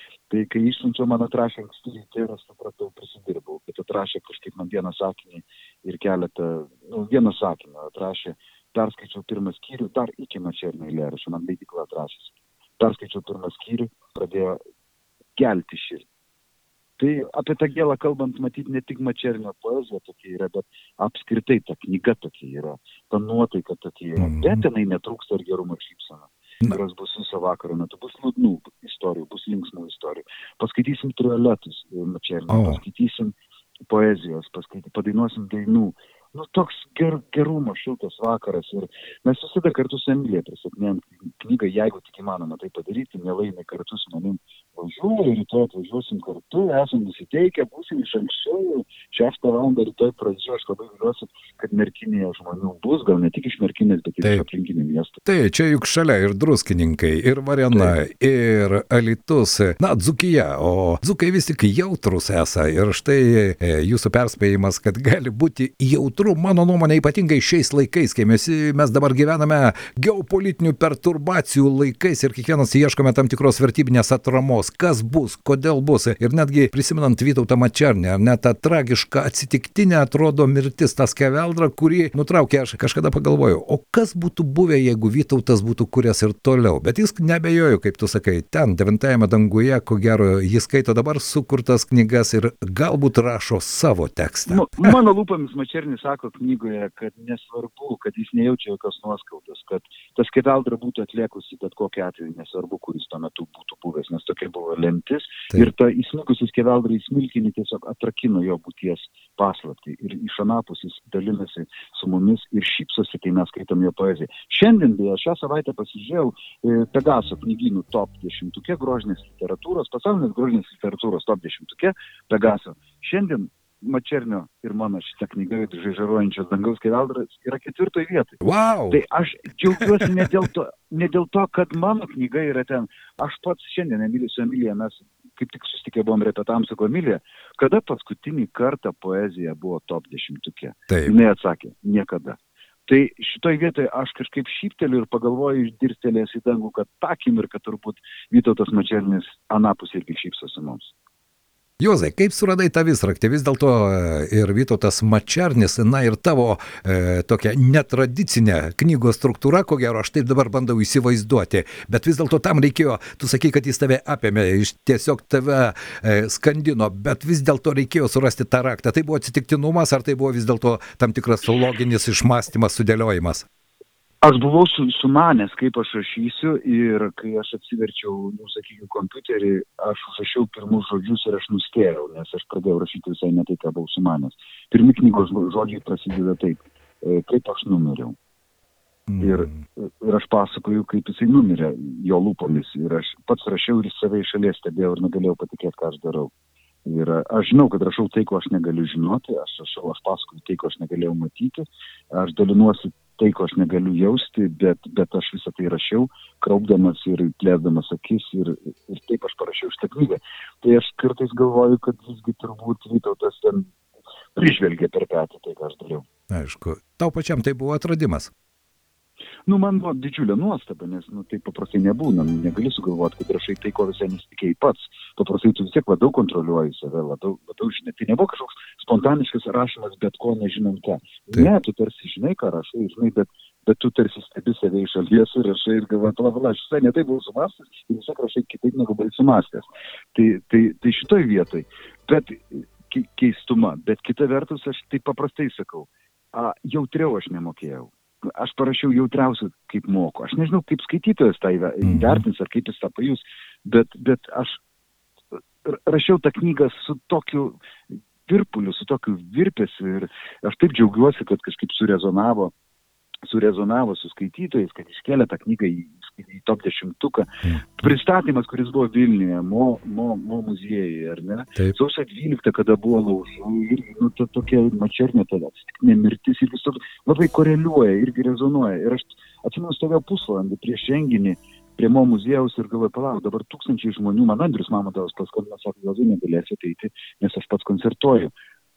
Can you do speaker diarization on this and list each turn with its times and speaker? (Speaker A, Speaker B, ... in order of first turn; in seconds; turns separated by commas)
Speaker A: 0.3-14.6, Speaker A: 15.4-16.1, Speaker A: 17.0-33.4, Speaker B: 24.2-24.6, Speaker B: 32.5-32.8, Speaker A: 33.9-55.2, Speaker B: 55.3-95.0, Speaker A: 94.5-128.4, Speaker B: 128.4-129.0, Speaker A: 128.9-150.9, Speaker B: 129.7-130.1, Speaker B: 151.8-173.5, Speaker A: 174.2-188.2, Speaker B: 189.1-189.6, Speaker A: 189.2-196.3, Speaker A: 196.8-213.7, Speaker A: 214.3-216.1, Speaker B: 216.3-218.3, Speaker A: 219.5-254.6, Speaker B: 251.8-252.2, Speaker A: 255.7-262.5, Speaker A: 263.3-288.3, Speaker B: 267.4-267.8